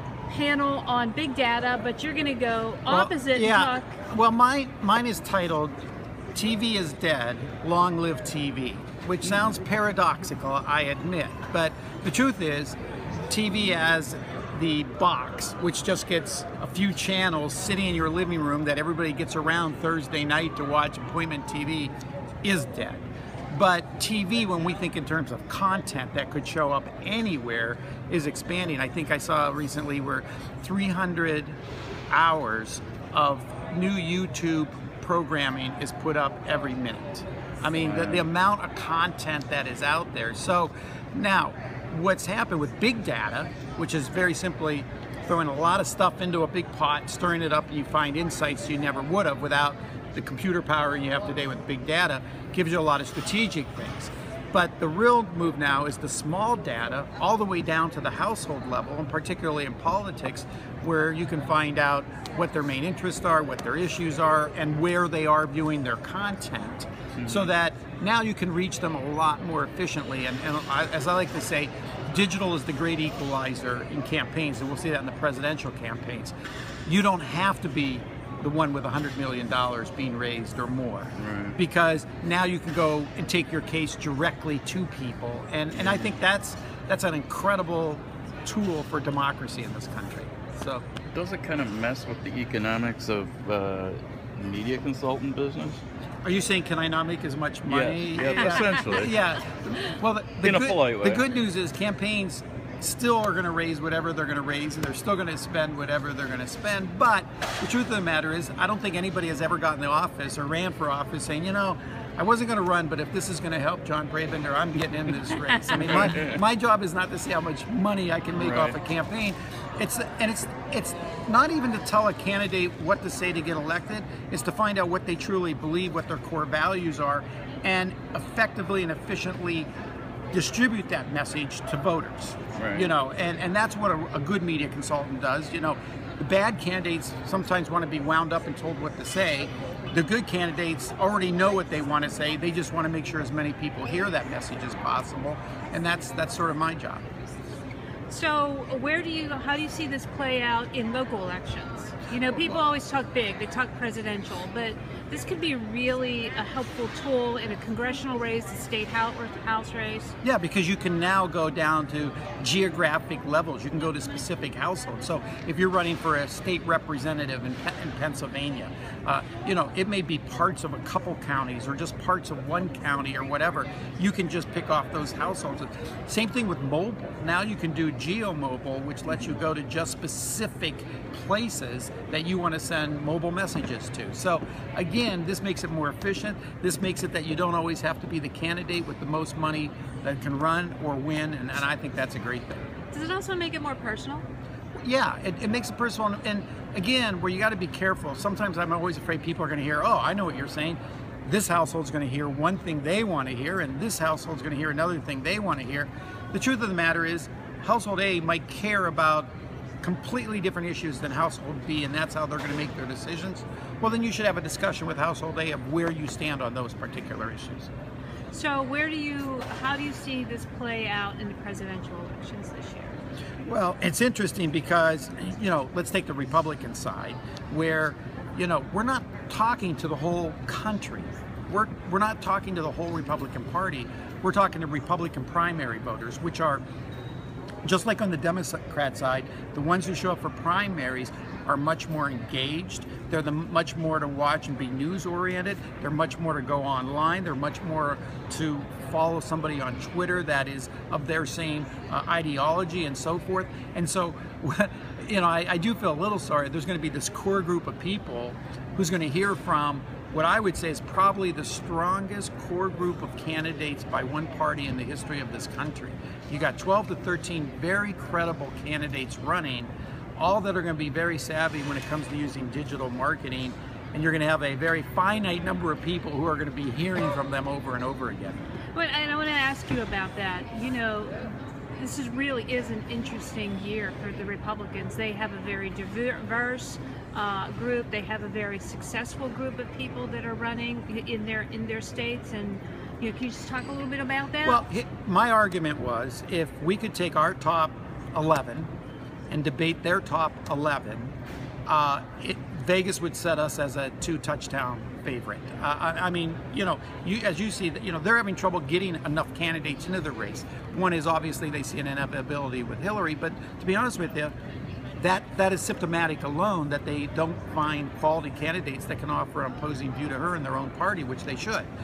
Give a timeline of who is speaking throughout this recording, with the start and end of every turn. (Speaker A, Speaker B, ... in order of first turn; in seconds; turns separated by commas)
Speaker A: 0.3-4.0, Speaker B: 2.9-5.8, Speaker B: 6.3-12.8, Speaker B: 13.3-31.6, Speaker B: 32.1-76.3, Speaker C: 37.7-38.2, Speaker C: 67.2-67.5, Speaker B: 76.9-90.8, Speaker C: 81.2-81.6, Speaker C: 85.8-86.1, Speaker C: 91.1-95.8, Speaker B: 96.2-129.7, Speaker C: 97.7-99.2, Speaker A: 98.3-99.0, Speaker C: 100.4-101.2, Speaker C: 115.8-116.4, Speaker C: 118.4-118.8, Speaker B: 130.3-147.0, Speaker C: 132.6-132.9, Speaker A: 148.1-160.2, Speaker B: 152.2-152.6, Speaker B: 160.2-192.7, Speaker A: 192.9-194.3, Speaker B: 194.8-209.3, Speaker B: 209.8-217.7, Speaker A: 218.3-223.0, Speaker B: 223.5-236.6, Speaker B: 237.7-278.5, Speaker A: 278.8-294.6, Speaker B: 294.4-298.7, Speaker B: 299.3-301.1, Speaker B: 301.7-314.3, Speaker B: 315.0-321.7